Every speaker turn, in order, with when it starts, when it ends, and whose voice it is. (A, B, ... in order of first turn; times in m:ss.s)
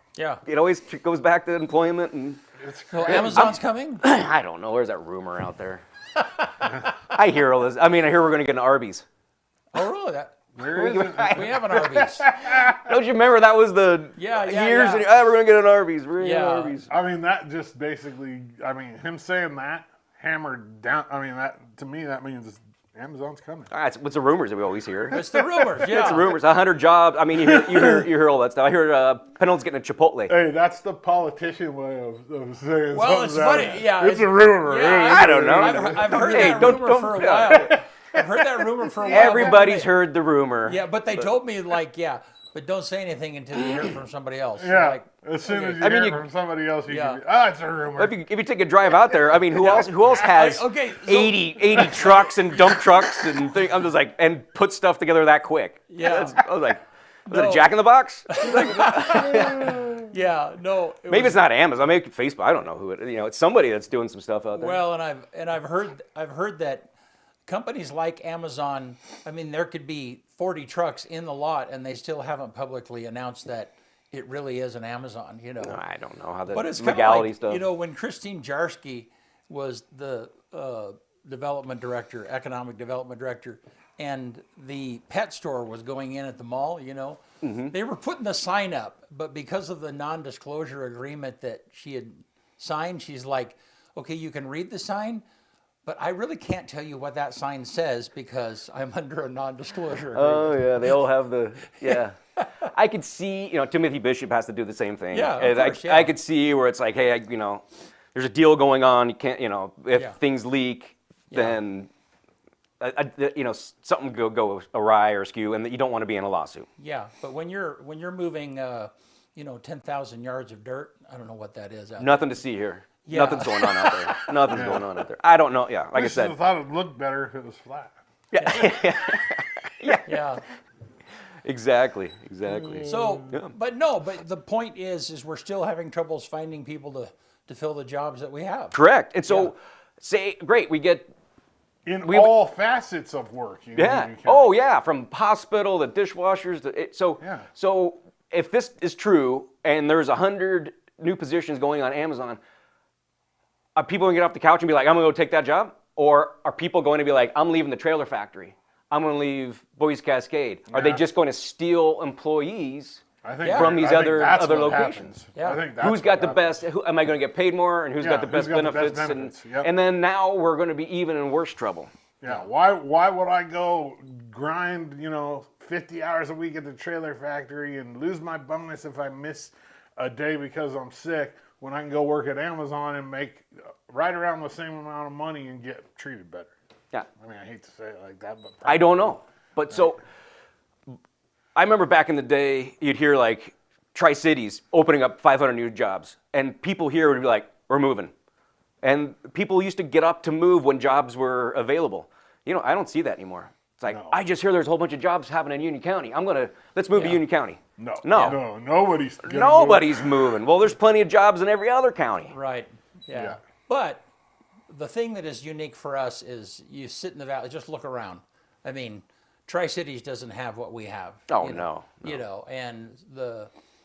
0:00.2-0:00.4 A
0:00.4-0:02.4 B
0:02.6-0:03.6 C
0:02.9-0:04.0 A
0:03.0-0:05.8 B
0:06.9-0:09.0 B
0:09.7-0:10.4 A
0:10.5-0:12.9 C
0:10.6-0:11.5 B
0:11.3-0:12.3 A
0:12.5-0:16.9 B
0:14.2-0:15.1 A
0:16.2-0:16.8 A
0:16.9-0:23.7 C
0:23.7-0:25.2 B
0:25.1-0:25.9 C
0:25.1-0:26.3 A
0:25.8-0:30.3 B
0:27.4-0:28.1 C
0:30.3-0:36.8 C
0:32.9-0:39.9 A
0:35.0-0:37.7 B
0:37.5-0:39.6 C
0:39.1-0:41.3 B
0:40.6-0:45.9 A
0:44.6-0:48.1 C
0:45.8-0:46.2 B
0:46.9-0:47.2 A
0:48.0-1:00.0 B
0:49.5-0:52.4 A
0:55.9-0:56.4 A
0:57.3-1:01.4 A
1:01.1-1:04.8 B
1:04.5-1:06.9 A
1:07.5-1:15.8 A
1:15.6-1:17.6 B
1:16.5-1:35.2 A
1:27.4-1:27.7 B
1:35.8-1:41.0 A
1:40.1-1:51.9 B
1:41.8-1:42.5 A
1:45.1-1:46.1 A
1:49.9-1:50.2 A
1:51.3-1:51.6 A
1:52.8-1:56.7 B
1:56.8-2:02.1 A
2:02.0-2:06.3 B
2:03.0-2:04.3 A
2:04.5-2:05.0 C
2:05.9-2:08.0 C
2:08.3-2:10.1 B
2:08.4-2:08.8 A
2:10.0-2:10.4 A
2:11.4-2:13.5 B
2:12.6-2:13.1 C
2:12.8-2:18.7 A
2:18.7-2:21.1 B
2:19.3-2:19.5 A
2:21.8-2:24.5 C
2:22.0-2:22.3 B
2:23.8-2:32.4 B
2:27.2-2:27.5 C
2:33.8-2:45.1 B
2:40.7-2:41.0 C
2:43.2-2:46.6 C
2:43.4-2:43.8 A
2:45.3-2:45.6 A
2:45.8-2:51.9 B
2:48.0-2:49.7 C
2:52.2-3:06.5 C
3:07.2-3:09.2 C
3:08.6-3:10.0 B
3:11.5-3:18.1 B
3:18.8-3:28.4 B
3:23.9-3:24.2 C
3:26.9-3:27.2 A
3:27.8-3:30.4 C
3:29.2-3:32.4 B
3:32.3-3:34.0 A
3:33.1-3:33.4 C
3:34.7-3:43.5 A
3:41.3-3:42.2 B